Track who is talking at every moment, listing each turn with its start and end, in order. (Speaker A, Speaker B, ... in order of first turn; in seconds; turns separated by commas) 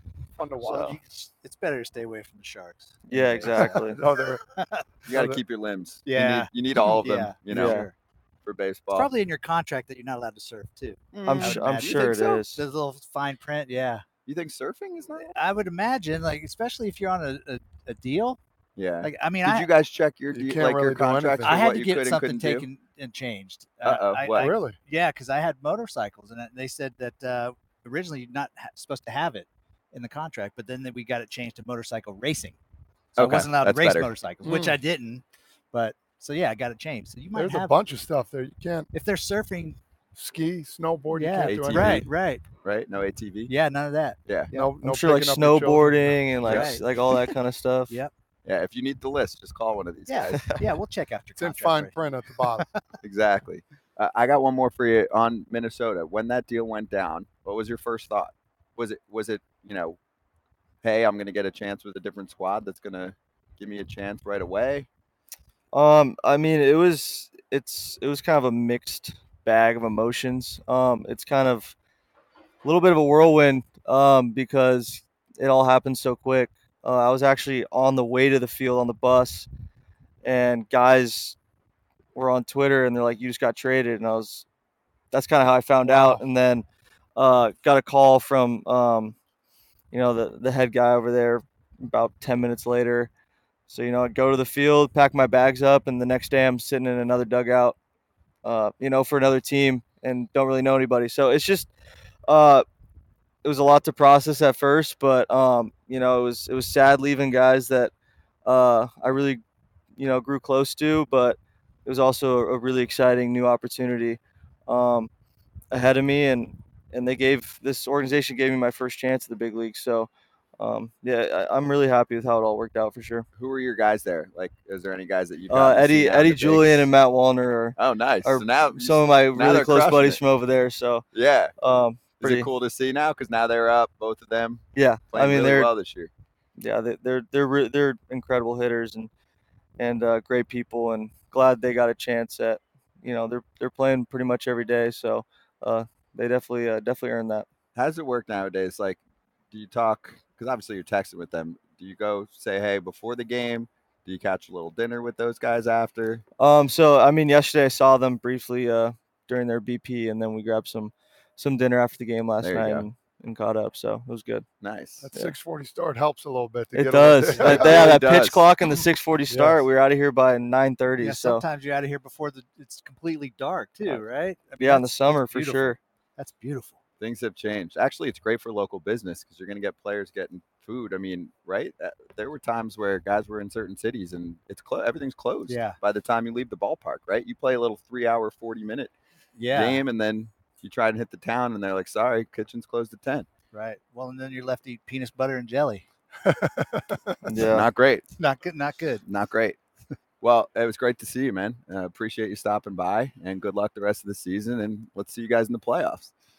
Speaker A: 0.4-0.9, Speaker B: 0.6-1.0, Speaker C: 0.6-4.0, Speaker B: 3.1-4.0, Speaker A: 3.7-4.4, Speaker C: 4.5-4.8, Speaker D: 5.0-7.9, Speaker A: 5.1-5.4, Speaker C: 6.1-7.9, Speaker B: 7.5-7.9, Speaker D: 8.4-9.1, Speaker C: 8.9-14.0, Speaker D: 11.1-12.4, Speaker B: 11.2-12.7, Speaker D: 14.2-15.3, Speaker C: 15.3-18.4, Speaker D: 18.8-22.7, Speaker C: 19.0-19.7, Speaker A: 20.3-21.7, Speaker C: 21.4-32.6, Speaker D: 23.8-24.5, Speaker A: 24.4-24.8, Speaker D: 33.1-34.1, Speaker C: 33.2-37.8, Speaker A: 34.4-34.8, Speaker A: 37.3-38.9, Speaker C: 38.9-39.8, Speaker A: 40.1-42.1, Speaker C: 41.1-42.4, Speaker D: 41.4-42.1, Speaker D: 42.6-43.5, Speaker C: 43.5-44.7, Speaker D: 44.2-44.5, Speaker A: 44.5-46.3, Speaker B: 44.8-48.0, Speaker C: 46.5-47.2, Speaker D: 48.5-50.6, Speaker C: 50.1-52.0, Speaker A: 51.4-52.6, Speaker D: 53.0-60.0, Speaker D: 60.8-64.9, Speaker B: 65.7-71.8, Speaker B: 72.6-79.5, Speaker B: 80.2-81.4, Speaker B: 82.1-84.5, Speaker B: 85.1-89.1, Speaker A: 85.8-86.2, Speaker B: 89.9-93.1, Speaker B: 93.7-97.8, Speaker B: 98.4-101.7, Speaker B: 102.3-102.6, Speaker B: 103.4-107.9, Speaker B: 108.4-109.4, Speaker B: 110.0-115.1, Speaker B: 115.7-123.2, Speaker D: 123.4-126.9, Speaker B: 125.5-131.0, Speaker D: 127.8-130.2, Speaker D: 131.1-131.5, Speaker B: 131.6-132.5, Speaker D: 132.2-136.1, Speaker B: 134.7-135.7, Speaker B: 136.6-139.1, Speaker B: 139.8-147.4, Speaker D: 147.7-149.0, Speaker D: 149.5-156.2, Speaker B: 156.4-164.4, Speaker D: 162.4-162.8, Speaker D: 164.6-165.1, Speaker A: 165.0-167.9, Speaker B: 166.7-171.4, Speaker D: 167.3-168.4, Speaker A: 169.3-169.6, Speaker C: 171.0-176.8, Speaker B: 174.6-175.8, Speaker D: 177.0-188.9, Speaker C: 185.5-185.8, Speaker C: 189.3-189.8, Speaker D: 189.5-193.3, Speaker C: 193.5-195.8, Speaker A: 196.2-197.2, Speaker B: 197.2-197.7, Speaker D: 197.4-198.0, Speaker C: 198.2-199.0, Speaker D: 199.0-199.6, Speaker D: 200.2-206.1